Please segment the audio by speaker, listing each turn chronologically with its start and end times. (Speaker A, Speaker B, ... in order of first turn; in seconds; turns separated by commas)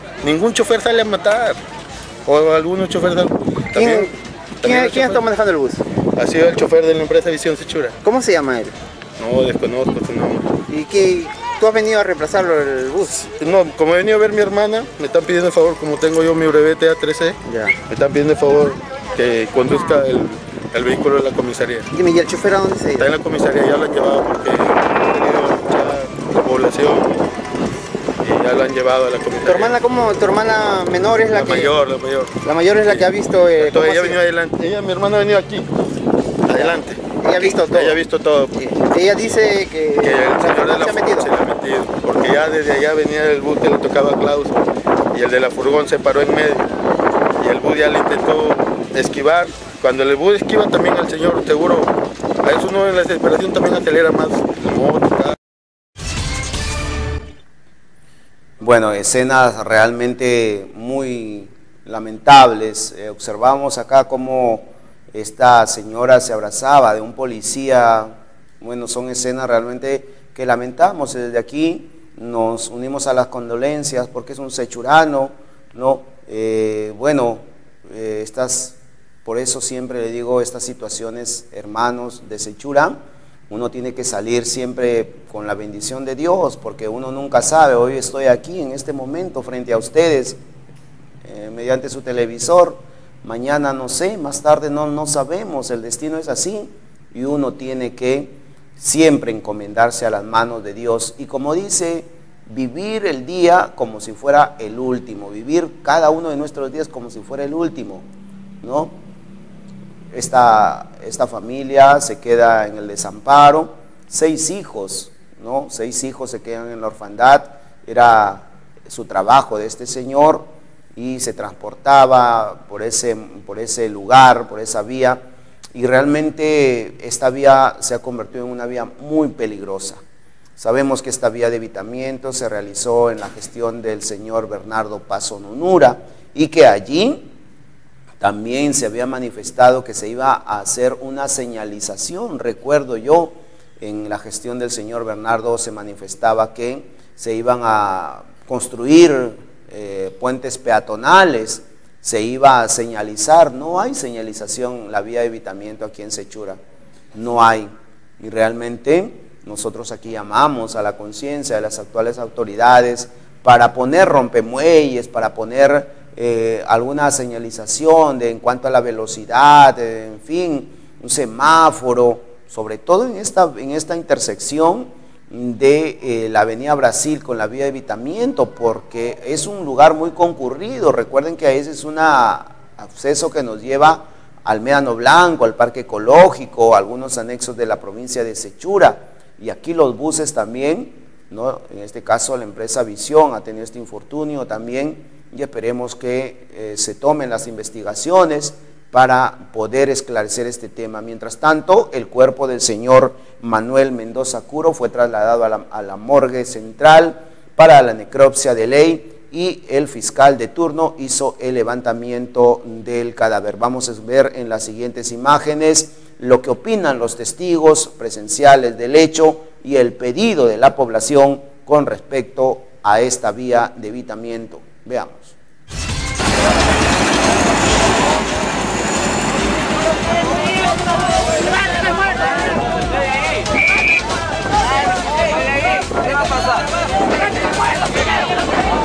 Speaker A: 0.2-1.6, Speaker A: 2.3-5.2, Speaker B: 3.7-4.1, Speaker B: 4.6-5.8, Speaker A: 6.2-8.0, Speaker B: 8.0-8.8, Speaker A: 9.2-10.5, Speaker B: 10.7-13.3, Speaker A: 13.4-17.4, Speaker B: 17.4-17.8, Speaker A: 17.9-21.9, Speaker B: 21.9-23.1, Speaker A: 23.0-27.2, Speaker A: 28.2-29.8, Speaker B: 29.4-31.7, Speaker A: 31.3-32.3, Speaker B: 32.4-34.2, Speaker A: 32.9-35.7, Speaker A: 36.5-38.7, Speaker B: 36.5-38.0, Speaker B: 38.6-41.3, Speaker A: 40.0-44.6, Speaker A: 45.1-46.7, Speaker A: 47.4-51.9, Speaker A: 52.4-55.4, Speaker C: 58.6-83.0, Speaker C: 83.5-90.4, Speaker C: 91.3-108.0, Speaker C: 108.6-109.0, Speaker C: 110.1-125.2, Speaker C: 125.8-130.0, Speaker C: 130.6-137.3, Speaker C: 138.2-156.6, Speaker C: 157.2-225.3